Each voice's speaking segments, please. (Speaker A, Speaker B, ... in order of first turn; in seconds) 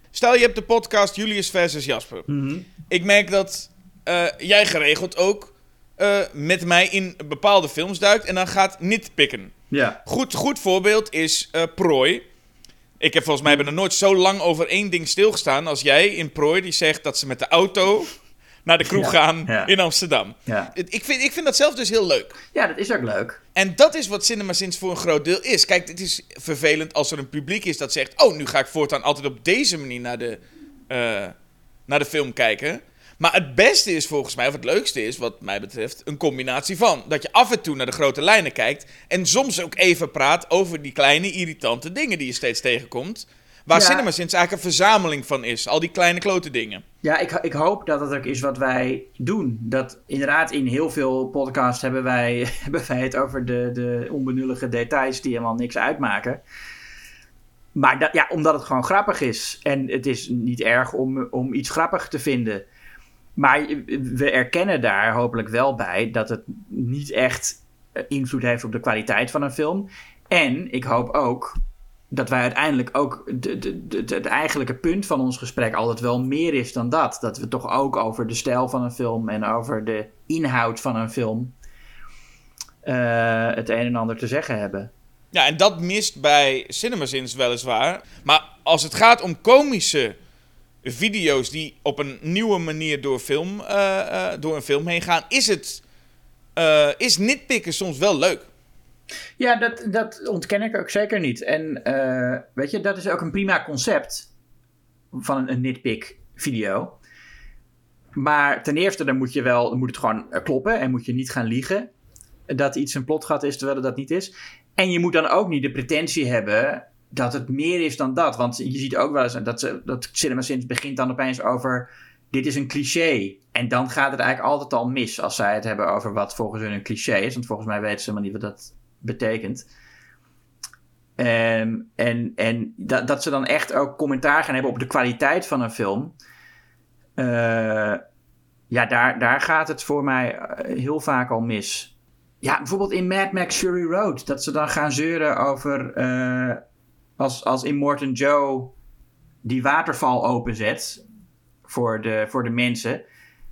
Speaker A: 0.1-2.3, 2.8-9.5, 10.0-12.2, 13.0-22.3, 23.5-30.4, 30.9-31.3, 31.9-46.8, 85.3-90.2, 90.8-95.8, 96.5-98.5
Speaker B: 2.3-2.7, 9.7-10.0, 18.9-19.7, 20.4-20.7, 22.5-23.4, 43.7-44.1, 47.0-56.4, 57.7-62.6, 63.4-71.6, 72.1-81.5, 82.8-84.9, 99.4-104.3, 105.1-107.0, 108.1-111.9, 112.5-129.7, 131.2-136.1, 137.2-138.0, 138.7-141.9, 142.4-146.6, 147.2-148.7, 149.4-151.0, 151.7-153.0